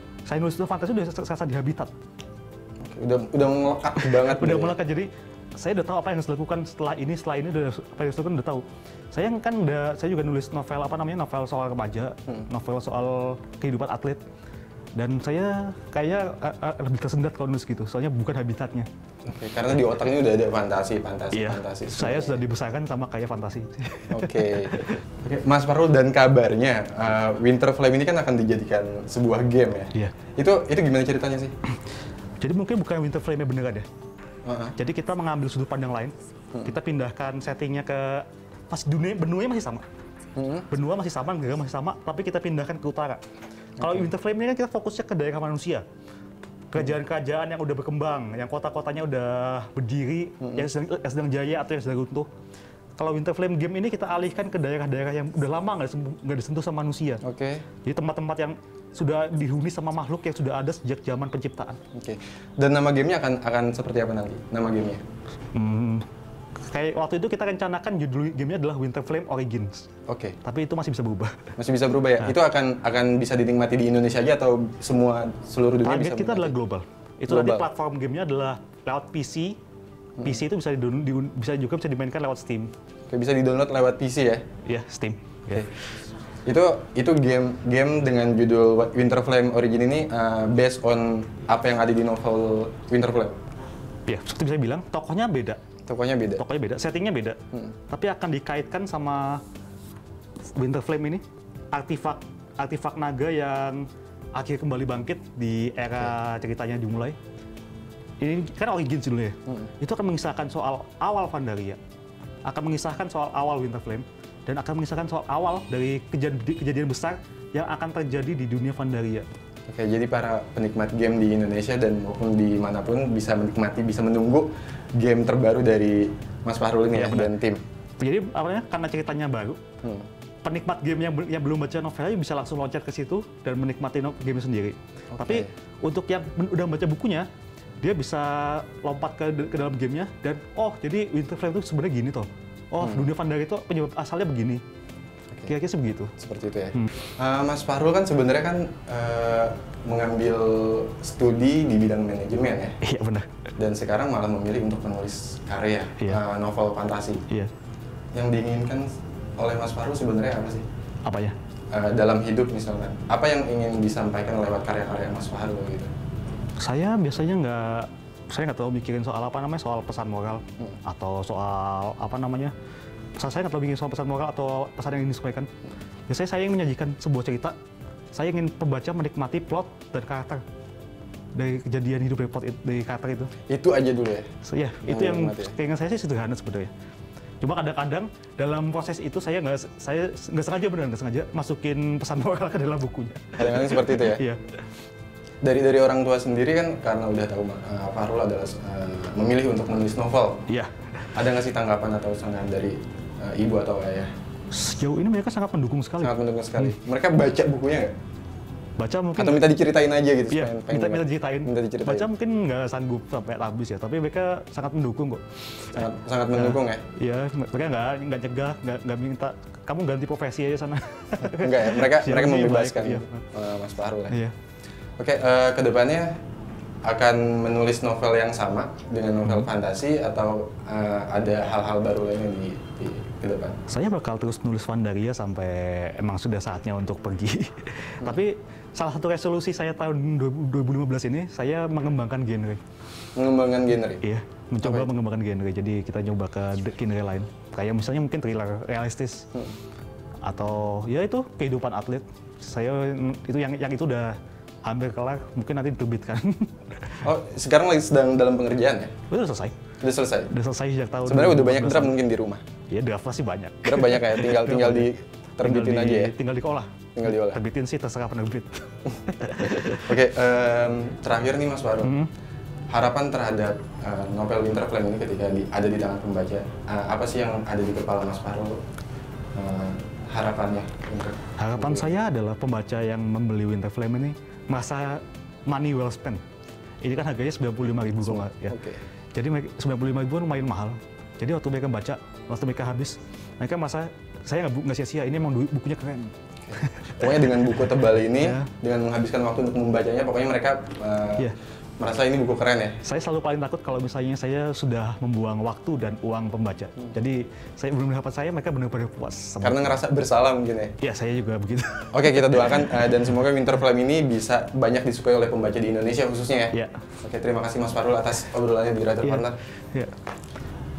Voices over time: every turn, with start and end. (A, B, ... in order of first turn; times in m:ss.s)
0:00.3-0:01.9 A
0:02.8-0:04.8 B
0:04.0-0:14.2 A
0:15.0-0:18.9 A
0:19.2-0:22.4 B
0:21.3-0:25.0 A
0:24.1-0:31.5 B
0:32.4-0:33.9 A
0:34.4-0:34.8 B
0:34.8-0:36.1 A
0:36.6-0:39.8 A
0:40.4-0:40.7 B
0:40.7-0:43.2 A
0:43.8-0:45.8 A
0:43.8-0:44.1 B
0:46.7-0:52.3 A
0:50.4-0:50.7 B
0:53.0-0:57.2 A
0:57.2-0:57.6 B
0:57.8-1:01.8 A
1:01.9-1:05.0 B
1:05.5-1:06.0 A
1:06.7-1:09.9 A
1:10.1-1:10.4 B
1:10.4-1:11.4 A
1:11.6-1:16.5 B
1:15.8-1:19.6 A
1:17.3-1:17.7 B
1:20.2-1:22.7 A
1:23.1-1:24.4 B
1:24.6-1:25.7 A
1:26.4-1:33.3 B
1:34.1-1:35.6 A
1:35.9-1:36.4 B
1:36.4-1:37.4 A
1:37.9-1:39.4 A
1:40.6-1:43.8 A
1:44.4-1:47.2 A
1:48.2-1:51.8 A
1:52.4-1:59.2 A
1:59.7-2:07.6 B
2:06.9-2:07.3 A
2:08.0-2:09.6 A
2:09.8-2:10.1 B
2:10.4-2:17.3 A
2:15.1-2:15.5 B
2:17.8-2:24.6 A
2:22.8-2:23.1 B
2:25.4-2:26.1 A
2:26.2-2:32.8 B
2:32.8-2:33.3 A
2:33.6-2:37.2 B
2:38.1-2:40.6 B
2:41.0-2:41.4 A
2:41.7-2:45.9 B
2:46.6-2:52.5 A
2:53.2-2:55.5 A
2:56.1-2:57.6 A
2:58.1-3:00.4 A
3:01.3-3:03.3 A
3:03.5-3:04.3 B
3:04.4-3:06.7 A
3:04.8-3:05.5 B
3:07.4-3:14.4 A
3:13.4-3:14.2 B
3:15.4-3:20.4 B
3:20.5-3:21.2 A
3:21.1-3:24.1 B
3:24.5-3:26.8 A
3:26.0-3:27.9 B
3:28.8-3:29.5 A
3:29.2-3:32.1 B
3:30.3-3:43.2 A
3:35.7-3:36.8 B
3:41.3-3:44.2 B
3:45.0-3:46.1 B
3:46.8-3:53.6 B
3:53.7-4:02.6 A
4:03.2-4:04.0 B
4:04.0-4:09.3 A
4:04.6-4:04.9 B
4:10.2-4:17.0 A
4:17.0-4:18.9 B
4:19.1-4:19.6 A
4:19.8-4:20.3 B
4:20.3-4:22.0 A
4:21.0-4:22.4 B
4:22.7-4:24.9 A
4:23.6-4:26.1 B
4:25.4-4:29.9 A
4:27.0-4:27.4 B
4:29.7-4:31.9 B
4:31.8-4:32.1 A
4:32.7-4:38.6 B
4:39.4-4:41.9 B
4:41.4-4:46.2 A
4:46.8-4:48.6 A
4:48.0-4:48.8 B
4:49.1-4:57.6 A
4:56.4-5:02.8 B
4:58.2-4:58.5 A
5:02.8-5:09.8 A
5:09.4-5:10.8 B
5:10.8-5:12.9 A
5:11.9-5:19.4 B
5:16.5-5:16.8 A
5:19.0-5:19.9 A